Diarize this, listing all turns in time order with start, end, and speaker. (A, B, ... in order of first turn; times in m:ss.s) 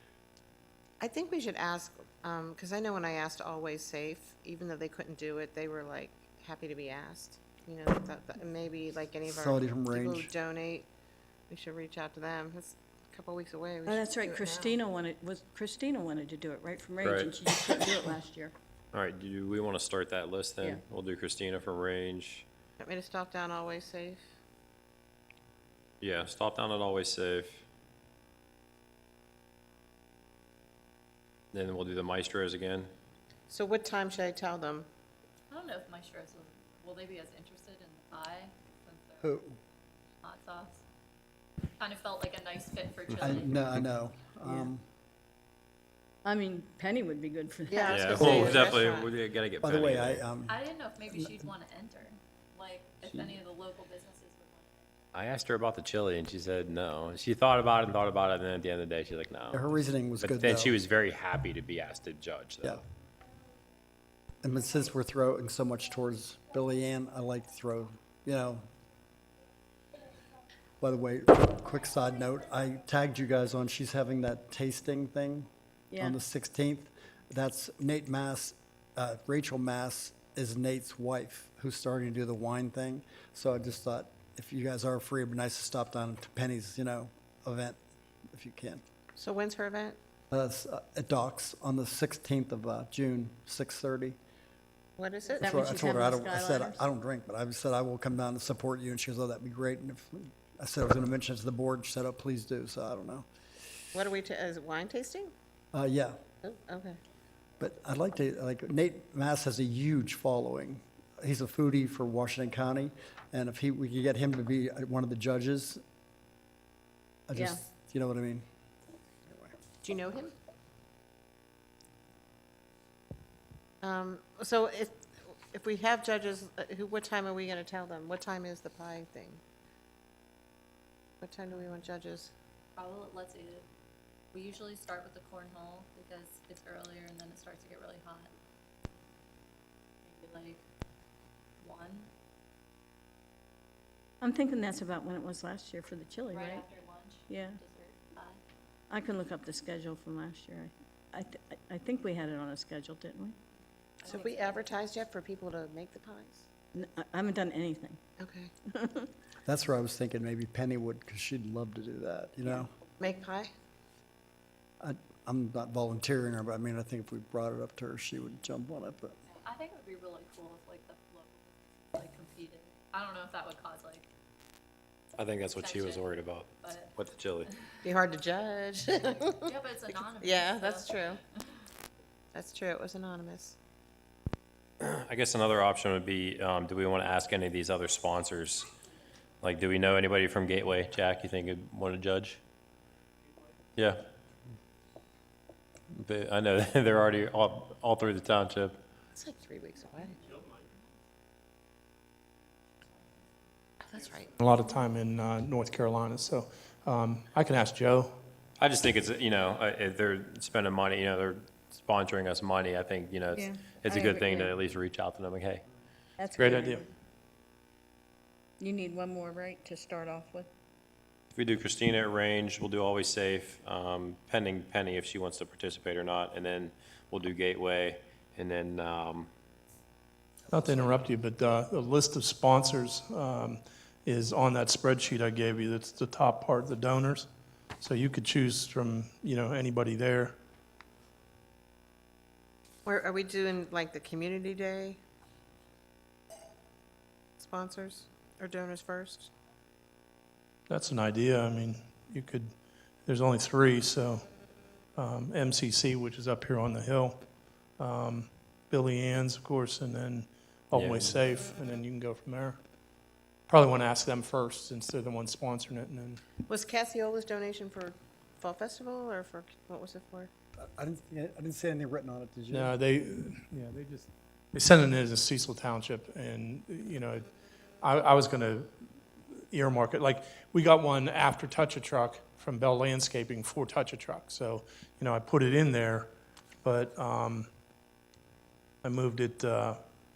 0:01.0-0:10.9 A
0:09.3-0:10.3 B
0:11.5-0:14.8 A
0:13.8-0:18.5 C
0:17.0-0:17.9 D
0:18.9-0:22.4 D
0:22.8-0:24.2 A
0:26.0-0:27.6 D
0:31.5-0:32.9 D
0:33.5-0:34.9 A
0:35.5-0:39.4 E
0:39.2-0:39.6 B
0:40.2-0:40.8 E
0:41.8-0:43.7 E
0:43.2-0:44.8 B
0:44.4-0:44.7 C
0:46.2-0:48.7 C
0:47.7-0:49.1 A
0:47.9-0:50.2 D
0:48.1-0:48.5 B
0:49.6-0:50.6 B
0:50.4-0:54.9 E
0:55.1-0:59.7 D
0:59.5-1:00.7 B
1:00.2-1:02.8 D
1:04.4-1:08.6 B
1:10.8-1:27.8 B
1:15.9-1:16.2 C
1:28.3-1:28.8 B
1:29.1-1:30.0 A
1:30.3-1:34.2 B
1:35.0-1:35.7 A
1:35.4-1:36.8 C
1:35.4-1:43.3 B
1:43.9-1:45.3 A
1:45.7-1:46.2 B
1:46.4-1:47.0 A
1:47.6-1:55.8 B
1:57.3-1:58.4 B
1:57.3-1:57.6 C
1:59.3-1:59.5 B
1:59.8-2:00.3 A
2:03.8-2:09.4 A
2:11.2-2:12.3 A
2:12.8-2:13.7 E
2:14.3-2:18.3 E
2:20.0-2:20.6 E
2:21.6-2:22.1 E
2:24.2-2:26.6 C
2:26.3-2:28.4 E
2:27.3-2:27.6 C
2:28.9-2:33.4 C
2:34.0-2:34.7 E
2:34.0-2:36.5 A
2:36.7-2:38.0 C
2:38.2-2:38.5 A
2:38.7-2:39.1 C
2:39.4-2:42.7 B
2:43.0-2:43.5 A
2:44.8-2:49.2 B
2:49.3-2:54.1 E
2:55.2-2:57.5 D
2:55.5-2:56.9 E
2:57.8-2:59.5 A
2:59.4-3:01.0 E
3:00.2-3:01.2 A
3:02.3-3:03.6 A
3:04.8-3:08.7 D
3:09.4-3:12.4 D
3:13.8-3:14.0 D
3:15.9-3:18.8 D
3:19.1-3:20.2 A
3:23.8-3:24.3 A
3:24.4-3:28.2 F
3:28.6-3:35.6 D
3:33.3-3:34.6 C
3:36.2-3:36.9 C
3:36.4-3:36.9 F
3:38.6-3:40.5 C
3:41.3-3:49.3 D
3:50.5-3:57.3 F
3:50.6-3:50.9 D
3:57.8-4:00.3 F
4:02.8-4:05.0 A
4:07.4-4:09.3 A
4:10.7-4:12.5 F
4:13.0-4:14.2 F
4:15.0-4:17.2 F
4:17.8-4:22.6 F
4:20.7-4:21.2 D
4:23.5-4:26.2 F
4:26.4-4:30.3 A
4:30.6-4:32.7 B
4:32.5-4:37.3 F
4:37.8-4:38.7 F
4:39.5-4:46.1 F
4:46.6-4:47.5 F
4:48.8-4:49.8 F